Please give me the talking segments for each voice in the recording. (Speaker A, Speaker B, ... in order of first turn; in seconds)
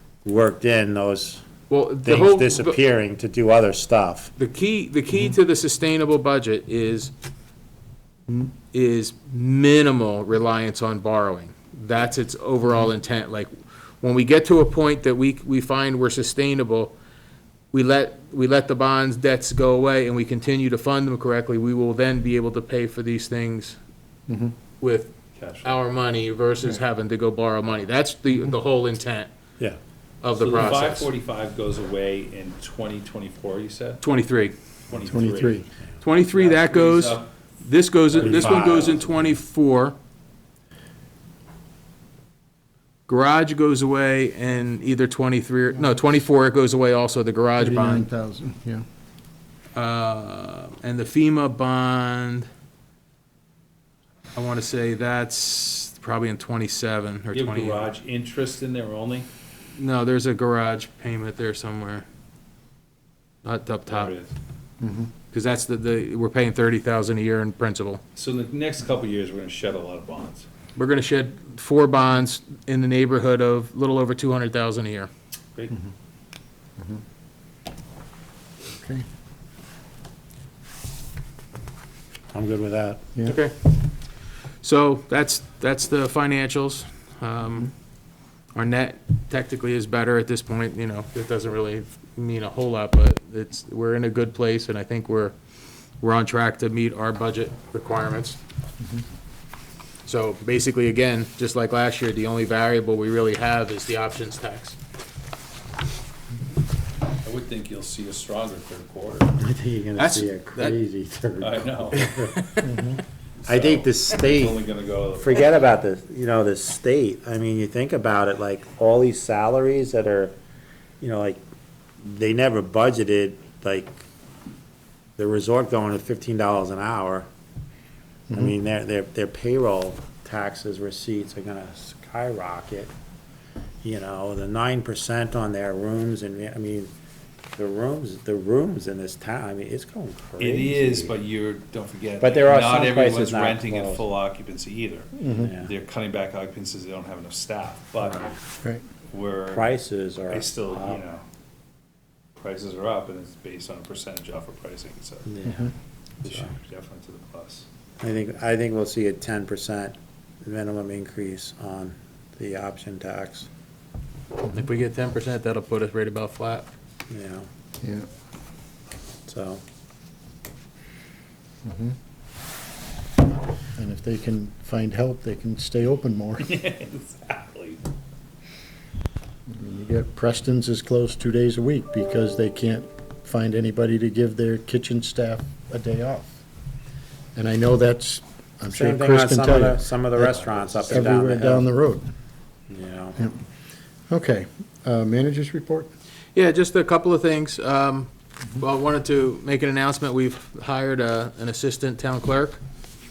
Speaker A: 0.2-1.4, 2.0-4.3, 38.2-39.0, 82.3-83.1, 109.3-112.7, 113.5-120.3, 121.0-121.4, 122.0-124.0, 125.2-127.2, 128.3-132.9, 133.8-136.9, 137.6-141.1, 142.2-144.0, 145.3-145.7, 149.5-151.0, 155.2-155.7, 158.0-163.5, 167.1-167.5, 169.3-169.6, 188.7-191.7, 192.7-193.2
Speaker B: 1.7-2.8, 4.4-7.1, 8.3-16.9, 17.7-23.8, 24.8-29.3, 30.2-31.1, 34.0-34.5, 36.0-40.0, 43.1-48.1, 49.7-52.5, 54.3-57.9, 59.7-62.0, 63.4-64.1, 65.3-68.0, 70.8-75.1, 83.2-83.8, 84.6-87.7, 88.5-95.3, 96.0-98.4, 100.0-104.8, 110.0-110.7, 112.2-112.7, 164.5-166.7, 196.3-202.6
Speaker C: 24.3-24.5, 35.0-35.6, 47.6-48.8, 64.8-65.1, 78.7-79.0, 112.6-113.0, 145.2-145.5, 171.7-171.9, 173.8-176.5, 179.5-186.3, 187.3-192.1, 194.1-195.9
Speaker D: 25.3-25.8, 30.4-34.0, 34.9-35.6, 36.3-37.3, 38.1-39.0, 57.3-59.3, 63.9-64.3, 68.1-70.5, 107.2-109.3, 111.4-112.1, 113.4-115.5, 140.4-148.3, 149.1-149.7, 150.3-151.2, 152.4-155.3, 156.2-157.7, 176.4-177.8